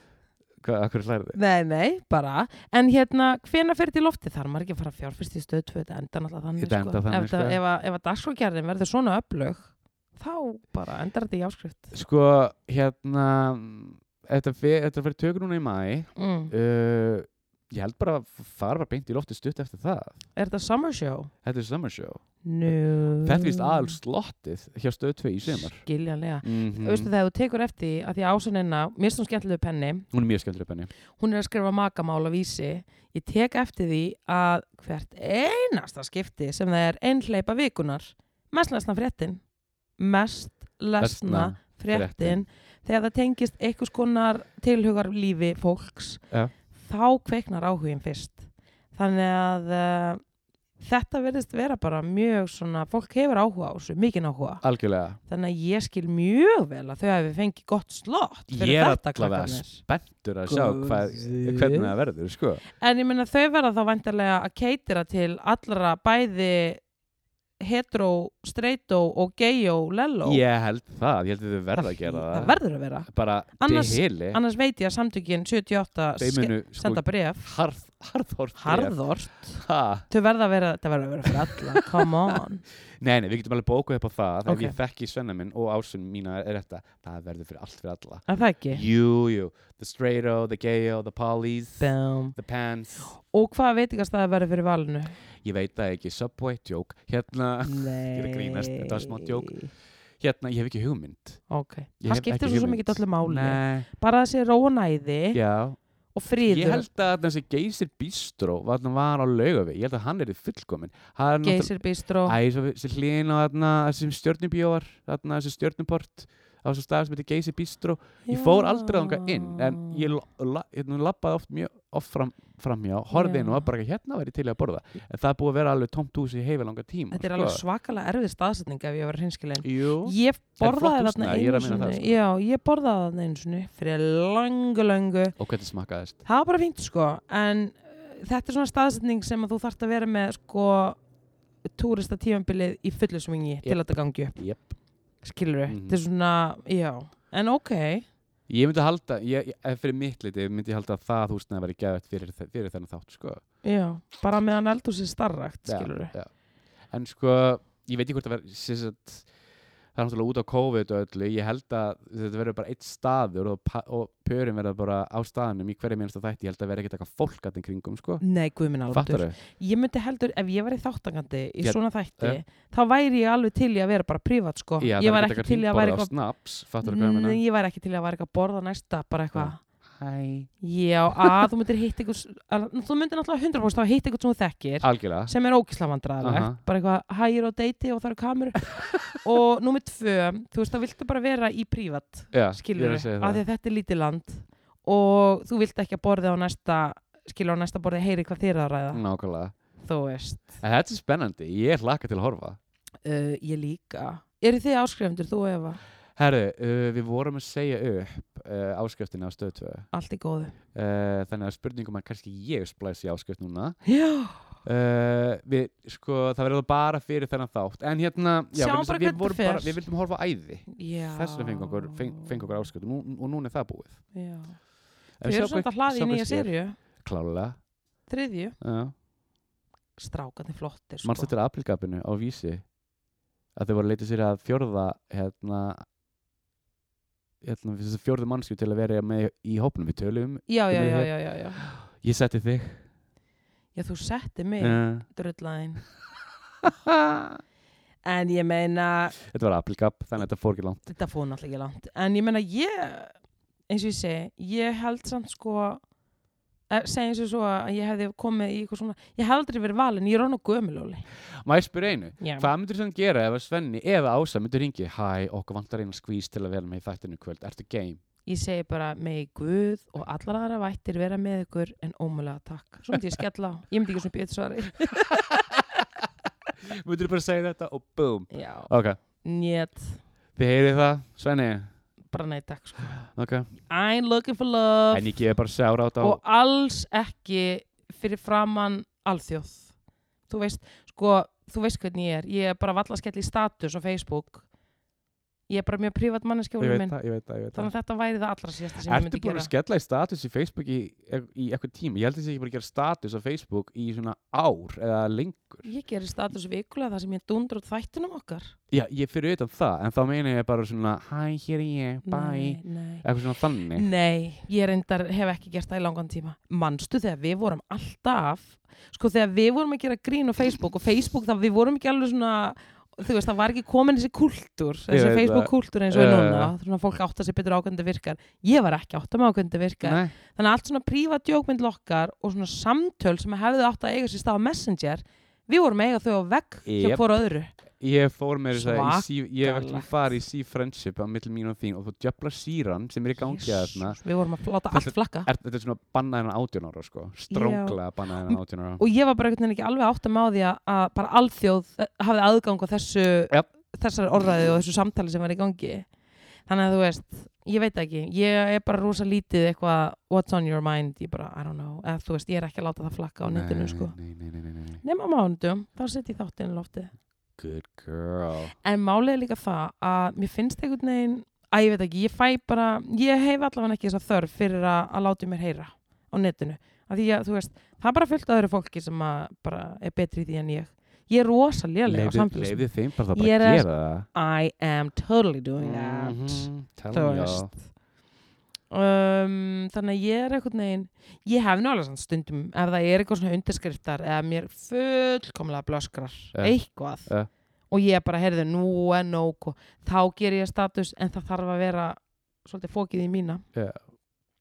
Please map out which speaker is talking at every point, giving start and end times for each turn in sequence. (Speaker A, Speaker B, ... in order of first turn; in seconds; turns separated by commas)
Speaker A: 0.6-1.4, Speaker B: 1.3-11.9, Speaker A: 6.6-7.6, Speaker A: 11.9-20.1, Speaker B: 16.1-16.5, Speaker B: 20.4-21.3, Speaker A: 21.4-25.8, Speaker B: 22.4-24.0, Speaker B: 25.5-30.1, Speaker A: 26.4-27.1, Speaker A: 30.1-30.9, Speaker B: 31.2-39.4, Speaker B: 40.0-46.2, Speaker A: 41.0-42.4, Speaker B: 46.7-50.2, Speaker B: 50.8-54.6, Speaker A: 54.6-55.2, Speaker B: 55.3-59.8, Speaker A: 58.5-62.6, Speaker B: 60.5-61.9, Speaker B: 62.8-66.8, Speaker B: 67.6-70.4, Speaker A: 70.2-72.5, Speaker B: 71.7-77.5, Speaker A: 73.1-74.4, Speaker A: 76.2-79.0, Speaker B: 78.6-82.6, Speaker A: 79.5-80.0, Speaker A: 81.5-82.0, Speaker A: 83.0-93.1, Speaker B: 84.5-84.8, Speaker B: 88.3-88.8, Speaker B: 91.8-92.4, Speaker B: 93.1-95.2, Speaker A: 95.4-99.6, Speaker B: 97.6-99.7, Speaker A: 100.2-101.4, Speaker B: 101.5-105.4, Speaker A: 102.0-103.9, Speaker A: 105.3-105.8, Speaker B: 106.1-106.8, Speaker A: 106.4-111.7, Speaker B: 111.4-112.4, Speaker A: 112.2-127.6, Speaker B: 118.2-120.1, Speaker B: 123.1-123.7, Speaker B: 127.1-135.3, Speaker A: 129.6-132.2, Speaker A: 135.4-136.2, Speaker B: 136.2-141.0, Speaker B: 141.8-144.4, Speaker A: 143.6-144.7, Speaker B: 145.2-148.1, Speaker A: 145.7-146.0, Speaker A: 148.5-153.4, Speaker B: 153.6-156.1, Speaker A: 155.7-156.3, Speaker A: 156.9-159.2, Speaker A: 159.9-168.2, Speaker B: 168.2-176.1, Speaker A: 168.9-169.3, Speaker A: 171.6-172.4, Speaker A: 174.8-177.4, Speaker B: 176.8-179.6, Speaker A: 179.3-180.5, Speaker B: 180.6-199.0, Speaker A: 184.8-185.3, Speaker A: 186.2-186.6, Speaker A: 192.3-193.4, Speaker A: 198.9-199.5, Speaker B: 199.8-200.6, Speaker A: 200.6-202.6, Speaker B: 203.0-205.8, Speaker A: 206.2-209.9, Speaker B: 209.9-210.6, Speaker A: 210.7-213.8, Speaker B: 213.8-214.4, Speaker A: 214.6-224.0, Speaker B: 218.5-219.8, Speaker B: 220.7-222.4, Speaker B: 224.1-224.6, Speaker A: 225.2-227.6, Speaker B: 225.2-226.8, Speaker B: 228.1-228.6, Speaker A: 228.6-228.9, Speaker B: 230.0-231.3, Speaker A: 231.0-232.6, Speaker A: 233.5-235.8, Speaker A: 237.4-242.8, Speaker B: 240.5-241.6, Speaker B: 243.7-245.8, Speaker A: 244.6-245.0, Speaker A: 246.6-247.4, Speaker B: 248.0-249.2, Speaker A: 249.2-250.8, Speaker B: 250.8-253.1, Speaker B: 253.7-255.8, Speaker B: 256.7-261.0, Speaker A: 261.4-268.0, Speaker B: 262.2-262.5, Speaker B: 268.2-275.5, Speaker A: 274.9-276.0, Speaker A: 276.6-279.0, Speaker B: 278.3-278.7, Speaker B: 279.2-280.0, Speaker A: 280.4-281.7, Speaker B: 282.1-283.0, Speaker A: 282.9-283.5, Speaker B: 283.6-285.2, Speaker A: 284.9-286.2, Speaker B: 286.0-289.7, Speaker B: 290.3-294.4, Speaker B: 295.5-296.9, Speaker A: 296.6-297.7, Speaker B: 297.5-299.5, Speaker A: 298.8-305.6, Speaker B: 305.6-308.5, Speaker A: 308.7-313.9, Speaker B: 312.1-313.0, Speaker B: 313.7-337.5, Speaker A: 324.9-326.5, Speaker A: 329.8-330.1, Speaker A: 336.6-337.2, Speaker A: 337.8-344.0, Speaker B: 338.5-340.1, Speaker B: 343.2-345.3, Speaker A: 344.7-348.8, Speaker B: 347.3-355.9, Speaker B: 356.5-363.9, Speaker A: 363.2-364.8, Speaker B: 364.8-366.9, Speaker A: 367.4-368.5, Speaker B: 368.6-387.6, Speaker A: 381.9-384.1, Speaker A: 385.6-387.5, Speaker B: 388.7-397.1, Speaker A: 396.3-397.3, Speaker B: 397.7-403.4, Speaker A: 403.5-403.8